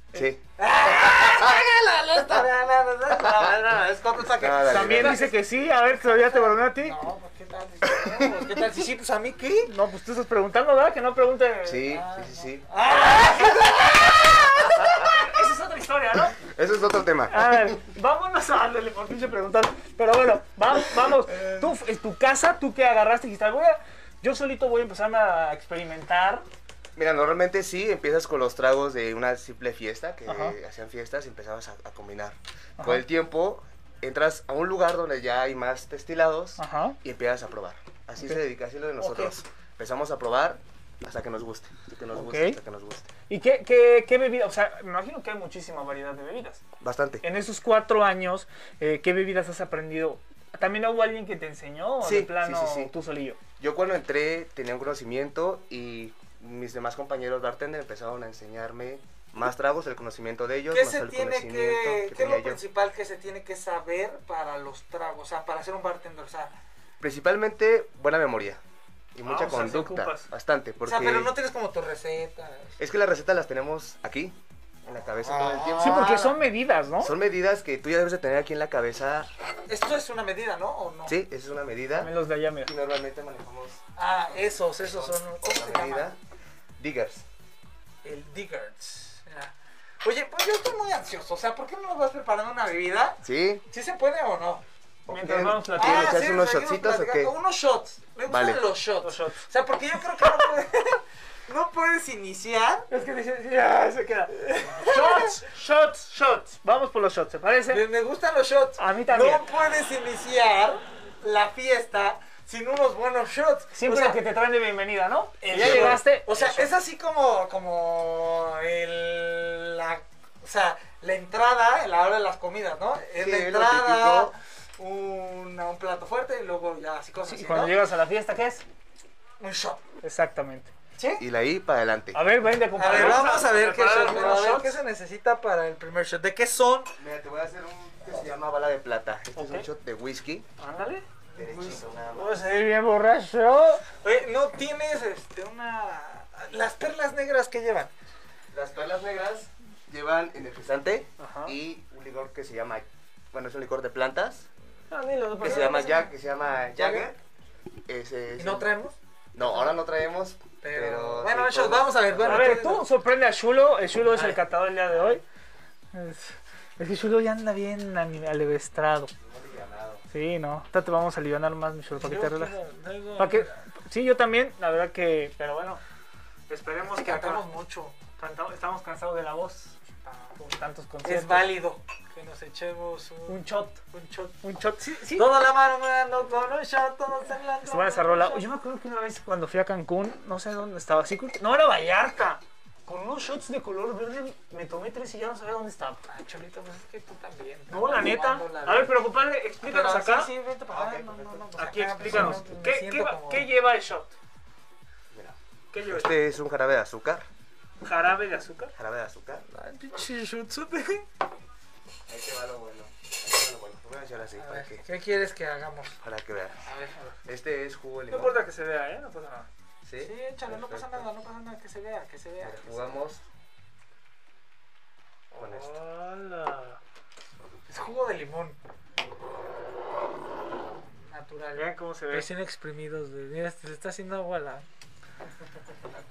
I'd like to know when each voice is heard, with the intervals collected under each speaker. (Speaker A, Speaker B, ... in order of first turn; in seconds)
Speaker A: 0.1-0.4, 1.1-1.6, 4.3-5.3, 7.9-8.3, 11.7-12.7, 14.8-15.1, 16.4-17.8, 27.0-43.1, 46.8-47.2, 52.0-52.9, 53.6-62.6, 67.0-68.6, 69.2-71.3, 72.8-76.4, 77.0-79.3, 81.1-82.1, 82.6-83.8, 84.8-86.2, 86.8-87.2, 93.2-93.6, 95.1-97.3, 98.3-98.6, 115.5-116.0, 123.2-124.3, 131.2-132.2, 132.8-133.4, 137.0-140.5, 141.4-142.4, 148.5-154.5, 155.4-157.2, 157.9-158.7, 159.3-162.8, 169.2-170.0, 200.7-201.2, 205.1-207.3, 208.8-209.5, 212.1-214.8, 216.0-216.6, 217.3-218.4, 219.8-221.1, 222.4-223.2, 225.4-225.8
Speaker B: 0.6-9.7, 11.9-14.8, 60.7-66.6, 70.8-72.8, 75.2-76.3, 79.7-81.2, 84.0-86.1, 88.0-94.6, 95.8-102.9, 104.6-105.5, 107.7-114.2, 115.4-127.8, 129.4-129.8, 131.0-131.2, 132.8-136.9, 141.4-141.9, 144.0-147.9, 158.4-159.8, 160.6-162.9, 164.1-164.4, 172.0-173.5, 176.8-178.0, 180.0-180.4, 181.0-184.4, 185.1-188.5, 196.1-199.0, 199.6-203.5, 209.5-211.1, 214.4-216.0, 216.7-217.2, 220.0-223.0, 227.7-228.6, 230.8-234.7
Speaker C: 4.6-7.0, 9.7-11.9, 15.0-16.4, 17.3-26.4, 30.3-30.6, 32.8-33.0, 36.6-37.0, 39.0-39.3, 42.1-42.6, 43.3-46.6, 47.2-53.4, 69.3-70.3, 75.8-77.1, 82.0-82.7, 95.1-96.2, 99.0-99.4, 102.9-107.9, 108.8-109.5, 113.7-116.7, 127.2-128.6, 130.0-130.7, 132.1-134.8, 139.4-139.7, 140.6-141.1, 142.2-143.8, 151.2-151.6, 154.9-156.1, 156.8-157.1, 162.2-165.2, 165.9-169.1, 170.1-172.6, 173.2-175.8, 176.5-177.5, 178.1-179.8, 180.4-181.6, 183.3-183.8, 184.4-185.3, 187.7-196.0, 197.7-200.3, 201.6-204.1, 205.7-206.1, 207.8-208.7, 218.1-219.5, 225.3-226.8, 231.6-232.3